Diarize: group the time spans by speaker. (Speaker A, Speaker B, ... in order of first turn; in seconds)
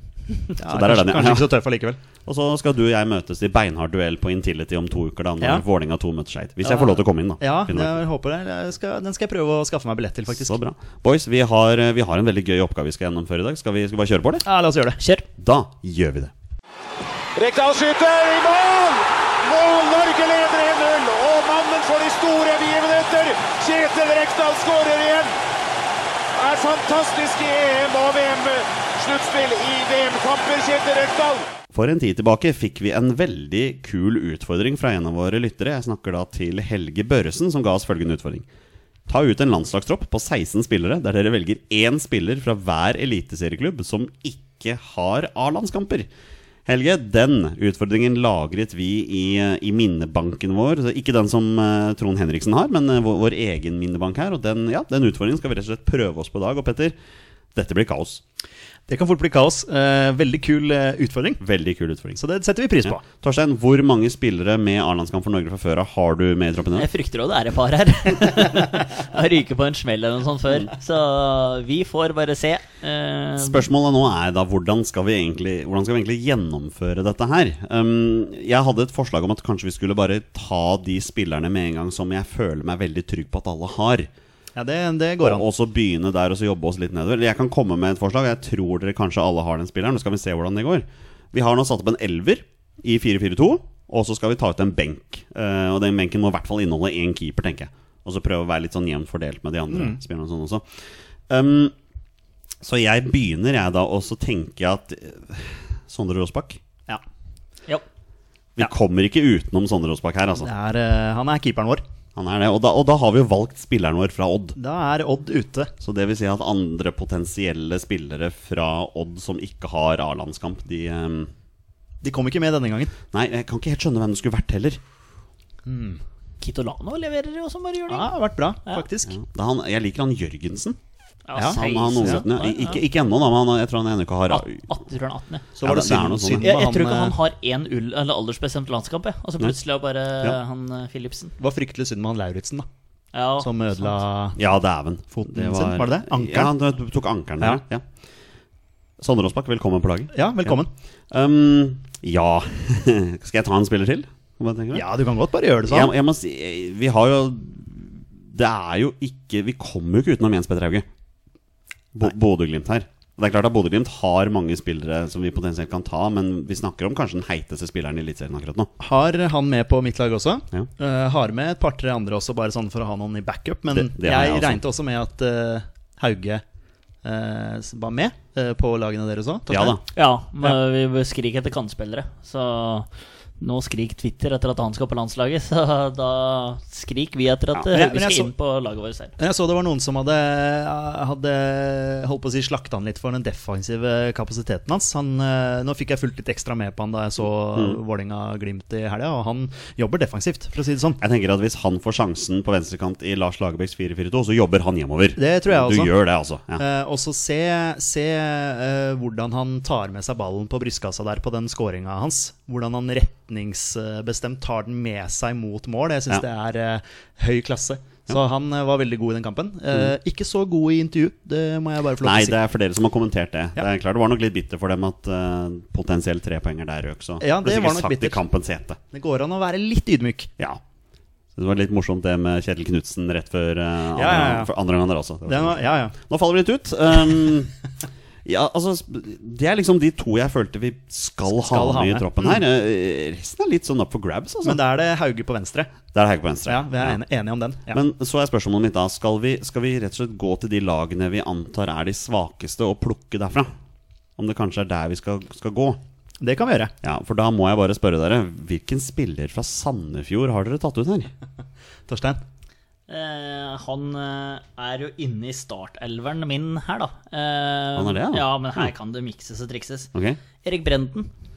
Speaker A: 0.5-2.0, 6.7-10.6, 14.4-15.0, 58.9-61.4, 62.2-63.0, 84.6-85.5, 99.7-100.0, 110.4-111.8, 114.6-115.7, 122.0-122.9, 125.7-126.0, 127.9-129.2, 131.3-132.2, 135.6-137.2, 141.4-142.7, 143.4-144.4, 145.1-146.5, 150.1-150.7, 154.7-155.9, 168.8-176.4, 177.0-179.8, 187.7-188.3, 189.2-201.0, 205.2-205.9, 206.6-222.4, 227.2-228.2, 228.9-230.3, 234.0-234.5, 235.3-235.9, 241.3-242.4, 244.4-245.7, 246.5-247.8, 256.2-256.7, 261.9-262.2
Speaker B: 0.6-1.6, 2.2-8.0, 10.3-14.4, 15.4-16.3, 31.7-38.5, 39.1-46.1, 46.7-57.0, 57.5-58.2, 61.4-62.2, 62.8-66.9, 73.4-84.1, 85.2-101.8, 102.6-106.6, 108.6-110.5, 112.2-114.6, 115.8-121.3, 123.1-124.8, 129.1-130.8, 131.5-134.7, 135.6-136.5, 144.4-147.8, 149.0-150.6, 151.1-154.9, 155.7-160.9, 161.9-168.7, 173.7-174.6, 179.5-179.8, 201.0-206.6, 222.0-228.8, 231.3-237.5, 238.2-244.6, 245.9-247.0, 247.7-253.5, 254.2-255.8, 256.8-261.1, 267.8-268.7, 269.9-270.2
Speaker C: 15.0-15.2, 66.8-73.7, 126.4-128.1, 131.3-132.8, 134.3-135.5, 136.4-141.3, 143.1-144.0, 179.9-189.1, 262.9-269.9, 270.4-271.1
Speaker D: 17.4-25.3, 26.4-31.4